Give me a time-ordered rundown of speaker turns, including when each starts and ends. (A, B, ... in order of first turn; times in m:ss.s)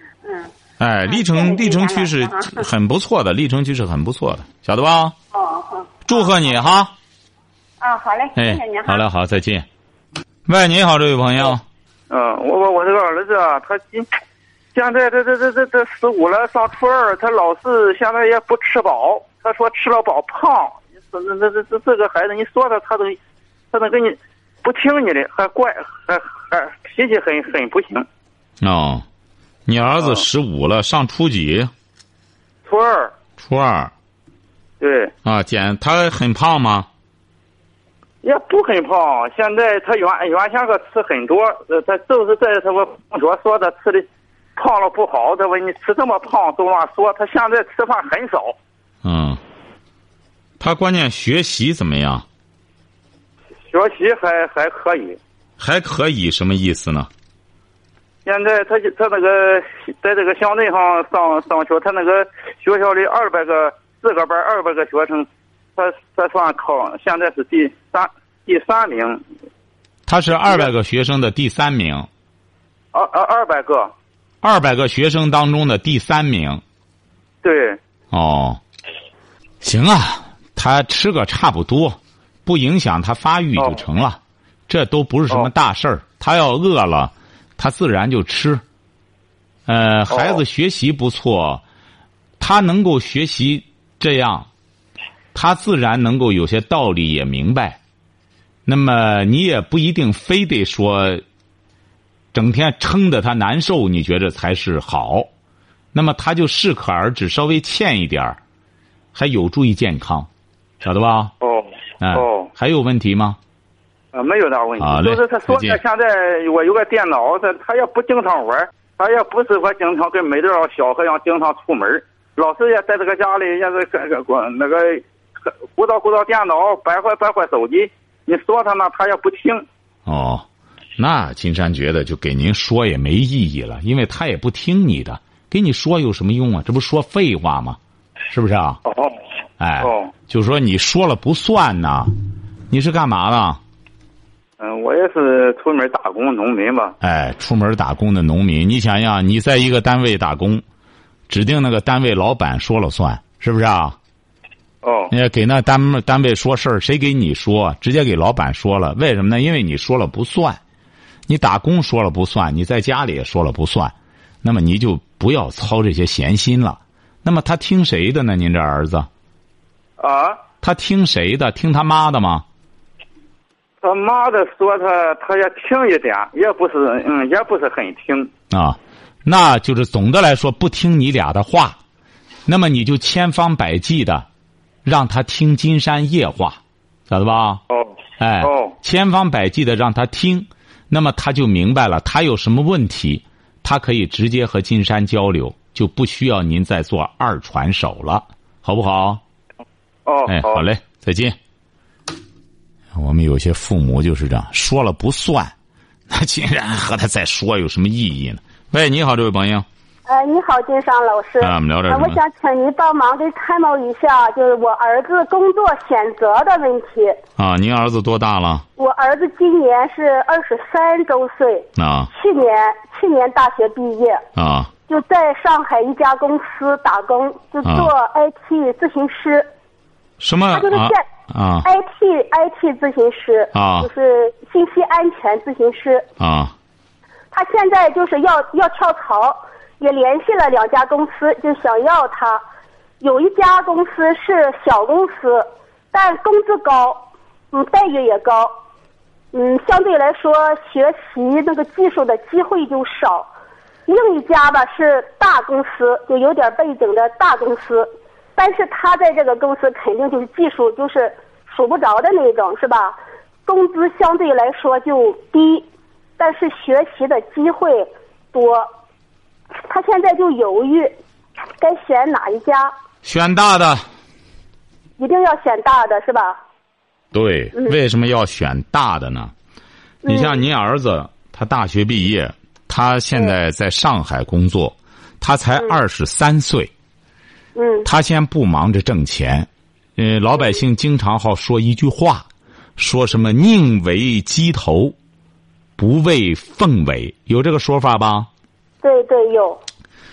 0:00.2-0:00.5 A
0:00.8-0:05.2 B
0:01.1-0:02.7 A
0:05.3-0:06.4 A
0:06.1-0:06.9 B
0:07.8-0:09.0 A
0:08.4-0:09.7 B
0:10.5-0:11.6 B
0:12.1-0:14.1 C
0:14.8-0:23.2 C
0:23.7-0:28.0 C
0:28.6-0:29.0 B
0:29.7-0:31.7 B
0:32.6-0:33.1 C
0:33.4-0:33.9 B
0:34.8-0:35.1 C
0:35.2-0:36.9 B
0:38.2-0:48.6 C
0:49.0-0:49.4 B
0:50.6-0:52.2 B
0:53.7-0:55.2 C
0:55.6-0:57.1 B
0:58.2-1:09.2 C
1:10.1-1:12.1 B
1:12.9-1:13.9 C
1:14.4-1:16.6 B
1:17.4-1:17.8 C
1:18.1-1:18.6 B
1:19.6-1:28.6 B
1:29.7-1:31.6 B
1:30.1-1:30.4 C
1:32.4-1:34.5 B
1:35.3-1:37.8 B
1:38.7-1:41.2 B
1:42.3-1:45.3 B
1:45.9-1:48.4 B
1:49.2-1:50.3 B
1:50.8-1:51.3 B
1:51.4-1:52.5 C
1:52.0-1:53.4 B
1:54.1-2:05.0 C
1:54.8-1:55.8 B
2:05.8-2:09.7 C
2:10.1-2:10.5 B
2:11.0-2:18.8 B
2:18.9-2:19.2 C
2:19.6-2:22.1 B
2:19.8-2:20.1 C
2:22.7-2:23.6 B
2:24.6-2:27.0 C
2:27.0-2:30.6 B
2:31.3-2:34.0 B
2:34.8-2:35.1 C
2:35.1-2:40.6 B
2:41.3-2:49.1 B
2:50.0-2:50.4 C
2:50.6-2:52.4 B
2:53.8-2:58.3 C
2:58.5-3:01.8 B
3:02.5-3:04.3 B
3:04.8-3:07.6 B
3:07.7-3:08.7 C
3:08.2-3:19.2 B
3:20.1-3:20.6 C
3:20.3-3:21.4 B
3:22.9-3:25.5 B
3:26.1-3:29.7 B
3:30.1-3:37.2 D
3:31.4-3:32.2 B
3:37.4-3:38.6 B
3:38.8-3:44.2 D
3:41.8-3:42.1 B
3:44.4-3:44.7 B
3:44.9-3:49.5 D
3:47.6-3:47.9 B
3:50.2-3:51.7 B
3:50.5-3:51.0 D
3:51.6-3:56.1 D
3:53.5-3:53.9 B
3:56.2-3:56.5 B
3:57.3-4:02.4 D
4:03.0-4:08.5 D
4:09.3-4:13.3 D
4:13.9-4:25.7 D
4:26.2-4:28.7 D
4:29.7-4:31.0 D
4:31.6-4:32.7 D
4:33.0-4:33.8 B
4:35.0-4:36.4 D
4:37.1-4:39.3 B
4:40.0-4:40.4 D
4:40.1-4:46.7 B
4:47.6-4:47.9 D
4:47.8-4:55.0 B
4:55.8-4:58.3 B
4:58.8-4:59.6 D